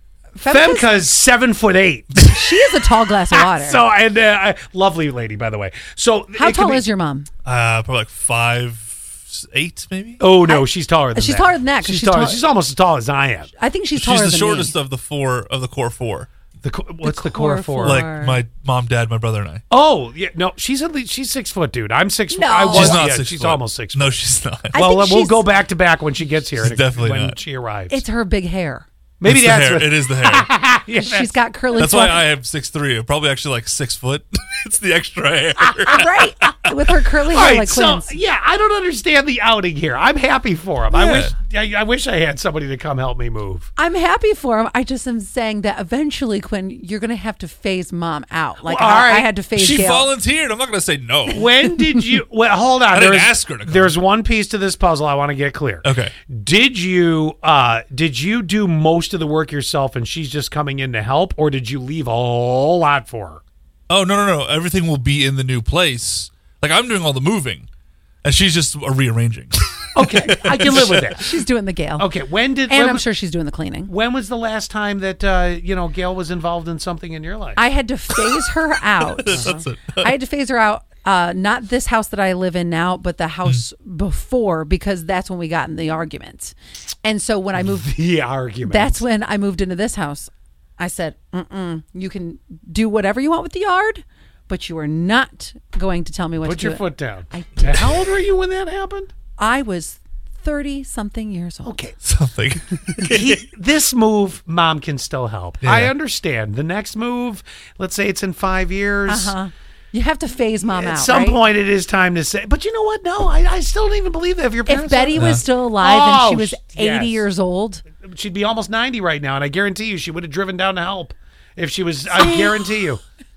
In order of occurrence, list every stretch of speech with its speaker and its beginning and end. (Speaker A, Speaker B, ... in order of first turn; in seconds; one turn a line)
Speaker A: 0.3-0.9
Speaker B: 0.5-2.4
Speaker A: 2.2-3.8
Speaker B: 3.3-6.8
Speaker A: 6.3-7.3
Speaker C: 7.4-10.2
Speaker B: 10.2-13.5
Speaker A: 10.4-12.5
Speaker A: 13.6-14.7
Speaker C: 13.9-16.3
Speaker B: 16.6-18.1
Speaker A: 17.0-18.4
Speaker C: 17.8-19.6
Speaker B: 19.7-24.1
Speaker A: 22.3-23.0
Speaker C: 22.7-24.7
Speaker A: 24.7-25.5
Speaker B: 24.7-28.0
Speaker C: 26.6-27.4
Speaker A: 27.9-28.9
Speaker B: 29.2-31.3
Speaker C: 29.2-30.5
Speaker A: 30.9-32.2
Speaker C: 31.8-36.7
Speaker A: 35.9-38.1
Speaker B: 37.3-43.7
Speaker C: 40.9-41.3
Speaker A: 43.8-50.1
Speaker B: 48.6-49.3
Speaker C: 49.5-51.5
Speaker B: 51.3-63.4
Speaker C: 52.9-53.9
Speaker C: 55.8-56.1
Speaker C: 63.9-67.7
Speaker C: 68.2-71.2
Speaker B: 69.9-71.3
Speaker A: 71.1-72.1
Speaker B: 72.0-73.0
Speaker A: 72.7-73.9
Speaker B: 73.9-77.6
Speaker A: 77.6-87.9
Speaker C: 79.0-80.1
Speaker B: 87.6-89.0
Speaker A: 88.6-97.8
Speaker B: 96.4-99.1
Speaker A: 99.4-101.8
Speaker B: 101.6-102.0
Speaker C: 102.0-103.3
Speaker B: 103.0-109.3
Speaker C: 105.6-105.9
Speaker A: 109.1-111.4
Speaker B: 110.7-117.2
Speaker A: 114.7-117.8
Speaker C: 115.1-115.4
Speaker B: 118.0-123.0
Speaker A: 122.1-122.7